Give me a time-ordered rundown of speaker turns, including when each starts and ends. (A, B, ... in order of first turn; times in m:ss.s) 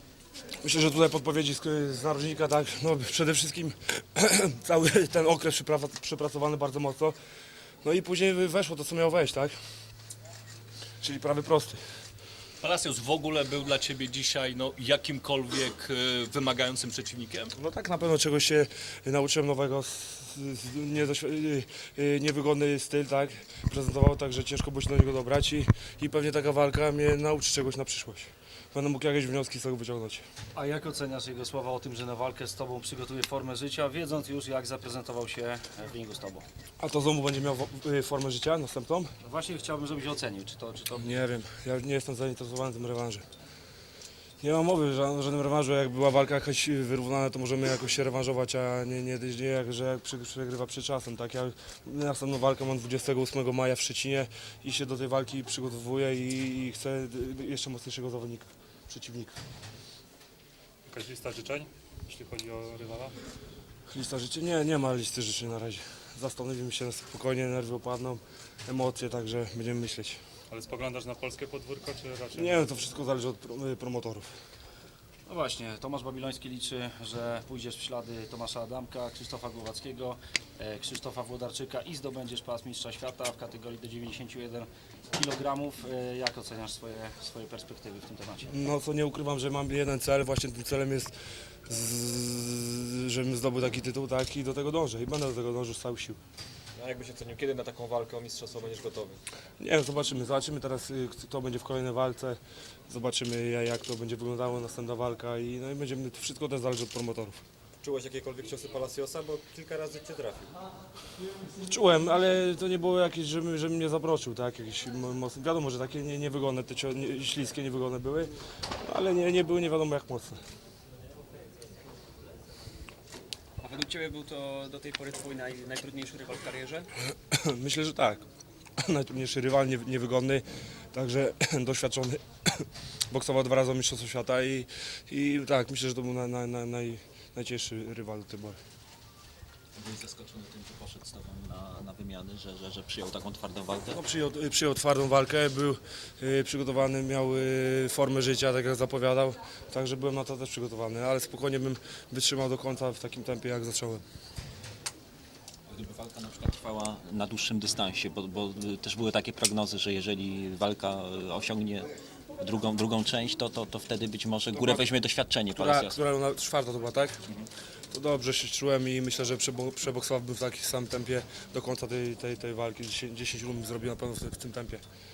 0:00.6-0:07.2 A
0:07.8-0:09.5 A
0:11.0-0:11.8 A
0:12.6-0:17.5 B
0:17.6-0:30.2 A
0:30.5-0:36.4 C
0:36.8-0:39.1 A
0:39.2-0:41.1 C
0:40.9-0:43.2 A
0:44.4-0:59.3 A
1:00.9-1:03.1 D
1:03.9-1:10.2 A
1:10.5-1:12.6 D
1:12.3-1:14.3 A
1:15.2-1:28.5 C
1:28.5-1:31.1 A
1:31.6-1:36.2 A
1:36.8-1:39.2 E
1:39.6-1:47.4 A
1:47.8-1:50.5 E
1:51.6-1:58.3 A
1:58.8-2:00.4 A
2:03.6-2:06.9 F
2:07.3-2:08.2 A
2:08.8-2:18.6 A
2:19.7-2:24.0 G
2:23.9-2:34.0 A
2:35.7-2:46.0 G
2:44.5-2:44.9 A
2:45.5-2:47.2 A
2:47.9-2:54.8 A